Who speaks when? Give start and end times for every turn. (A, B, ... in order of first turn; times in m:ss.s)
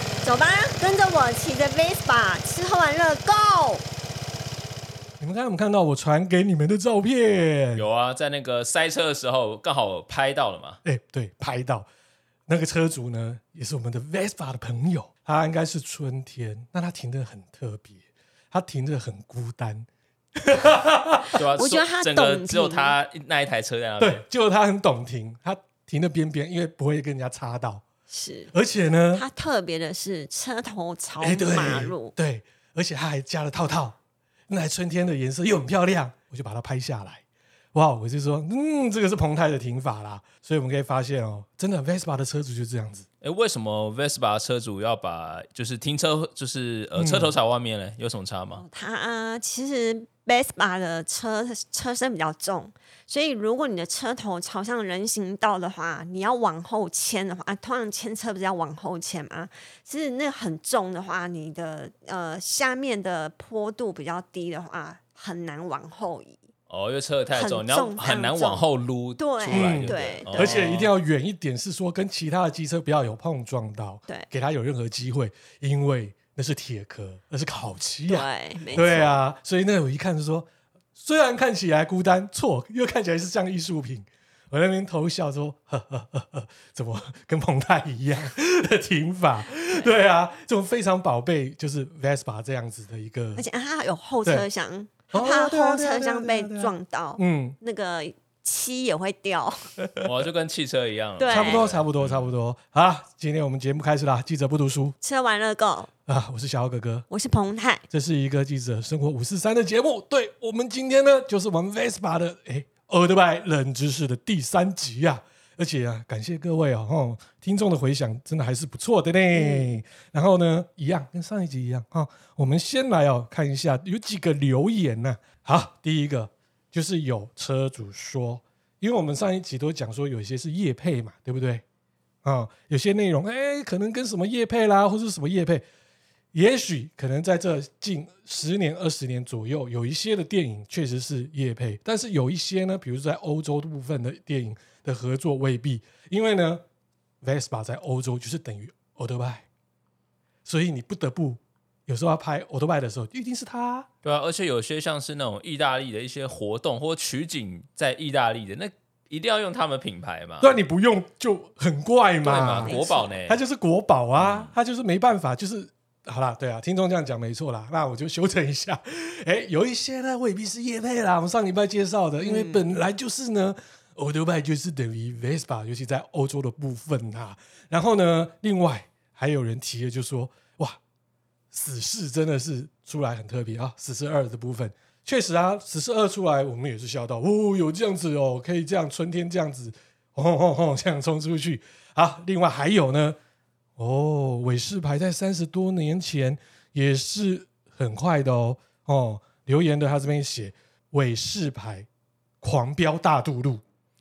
0:00.2-0:03.8 A
0:05.2-0:07.9 B
0:07.8-0:10.8 C
0:10.8-0:11.9 B
0:12.5-0:18.0 B
0:18.5-0:21.4 B
0:21.4-0:24.2 C
0:21.6-0:23.0 A
0:24.0-0:27.8 B
0:28.1-0:28.5 A
0:28.5-0:29.2 B
0:29.1-0:32.1 A
0:31.2-0:34.0 B
0:34.5-0:37.2 B
0:37.7-0:43.1 B
0:43.2-0:48.6 C
0:47.0-0:47.3 B
0:48.6-1:06.4 A
1:06.7-1:10.9 C
1:07.3-1:08.6 A
1:09.2-1:10.7 A
1:09.5-1:33.4 B
1:18.1-1:19.1 A
1:18.8-1:19.2 C
1:33.4-1:39.7 A
1:35.1-1:37.6 B
1:39.8-1:40.1 B
1:40.0-1:42.3 C
1:41.2-1:41.6 A
1:41.3-1:45.0 B
1:45.0-1:45.9 A
1:46.1-1:47.1 B
1:47.1-1:47.8 A
1:47.9-2:11.6 B
1:59.3-1:59.7 A
2:12.2-2:15.6 B
2:16.3-2:26.6 B
2:27.2-2:29.4 B
2:30.4-2:33.9 B
2:34.0-2:40.6 C
2:40.4-3:00.8 B
2:42.2-2:43.4 C
2:42.6-2:43.2 A
2:44.2-2:44.5 C
2:52.2-2:52.7 A
3:01.5-3:13.2 B
3:13.8-3:21.9 B
3:22.4-3:23.6 B